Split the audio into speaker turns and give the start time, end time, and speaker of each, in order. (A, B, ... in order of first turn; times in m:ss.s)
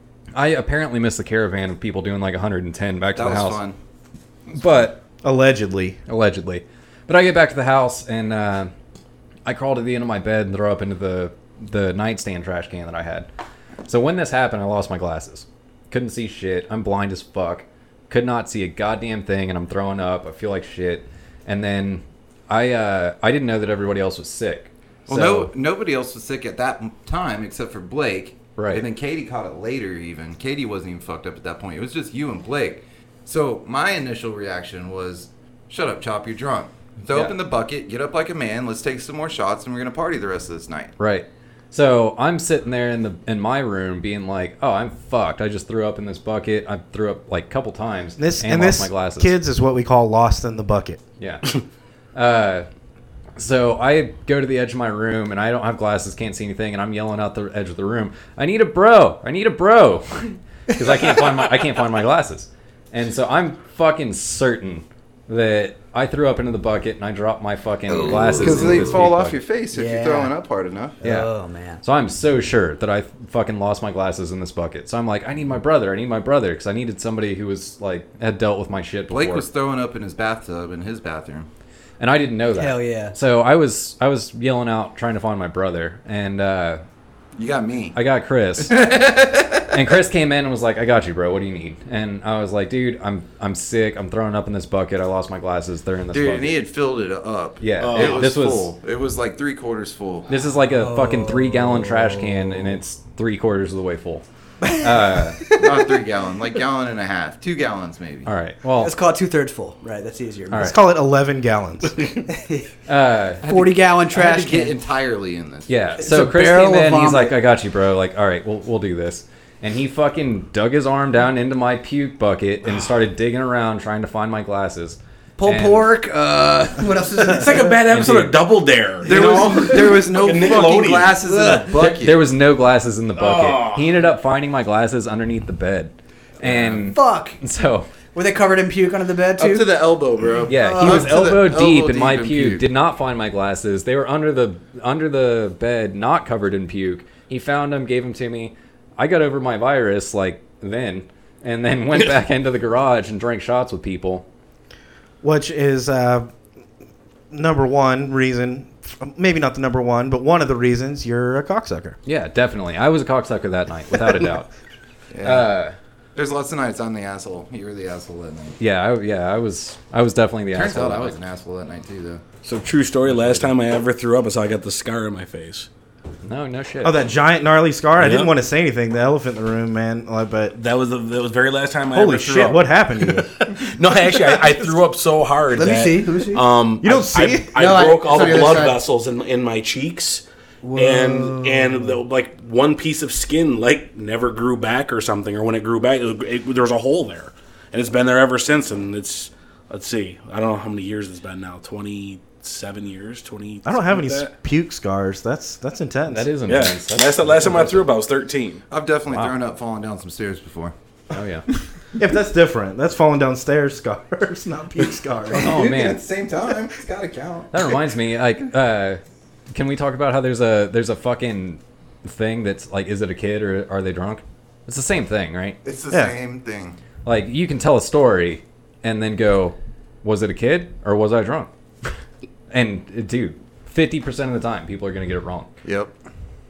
0:00.3-0:03.6 A
0:03.2-0:03.8 B
0:04.5-0:05.0 A
0:05.2-0:06.0 C
0:06.1-0:08.7 A
0:09.4-0:13.3 A
0:13.8-0:25.5 A
0:25.1-0:40.9 B
0:28.6-0:28.8 A
0:37.1-0:37.4 A
0:41.0-0:49.3 A
0:48.2-0:51.0 C
0:51.2-0:51.5 A
0:52.1-0:52.7 A
0:53.4-1:09.4 A
1:07.9-1:11.0 B
1:09.7-1:10.3 D
1:11.0-1:11.8 D
1:11.0-1:11.3 A
1:11.8-1:19.4 A
1:19.1-1:21.5 B
1:22.0-1:26.8 A
1:22.5-1:23.1 D
1:27.4-1:28.0 B
1:27.9-1:28.8 A
1:28.6-1:29.9 B
1:29.7-1:36.6 A
1:36.1-1:40.3 B
1:37.6-1:38.7 A
1:37.8-1:38.2 E
1:40.3-1:45.4 A
1:40.6-1:42.7 D
1:44.6-1:45.9 D
1:45.6-1:48.3 B
1:48.2-1:48.9 A
1:48.8-1:50.7 D
1:50.5-1:50.8 A
1:50.5-1:52.1 C
1:52.3-1:52.7 D
1:52.9-1:53.4 A
1:53.4-1:54.7 D
1:53.4-1:55.7 B
1:55.7-2:05.9 A
1:56.0-1:57.4 D
2:05.4-2:07.8 D
2:07.3-2:11.2 E
2:07.8-2:08.4 A
2:09.0-2:12.2 B
2:11.2-2:12.0 D
2:11.7-2:17.9 A
2:13.2-2:14.0 E
2:16.4-2:16.7 B
2:16.7-2:17.4 D
2:18.1-2:19.8 D
2:19.4-2:22.6 B
2:20.5-2:34.2 A
2:20.5-2:21.1 D
2:35.2-2:36.3 C
2:37.3-2:42.0 C
2:42.0-2:44.5 A
2:45.1-2:45.5 B
2:45.2-2:45.8 A
2:46.2-2:48.6 B
2:48.6-2:51.2 A
2:50.5-2:52.2 B
2:52.4-2:55.7 E
2:53.1-2:53.5 A
2:56.2-2:57.0 A
2:56.8-3:00.6 C
2:58.0-2:58.3 E
3:00.5-3:10.2 E
3:01.9-3:03.3 C
3:05.5-3:06.4 D
3:06.8-3:07.7 C
3:07.5-3:08.8 D
3:10.6-3:12.0 D
3:10.7-3:24.3 E
3:23.6-3:26.3 C
3:26.1-3:27.9 A
3:26.5-3:28.6 E
3:28.7-3:30.7 B
3:29.1-3:29.3 A
3:31.1-3:31.5 A
3:32.0-3:35.6 C
3:35.0-3:37.8 B
3:35.3-3:36.0 A
3:37.5-3:39.0 A
3:39.5-3:45.6 A
3:45.6-3:46.8 B
3:47.0-3:51.9 A
3:52.5-3:55.5 A
3:55.6-3:55.9 B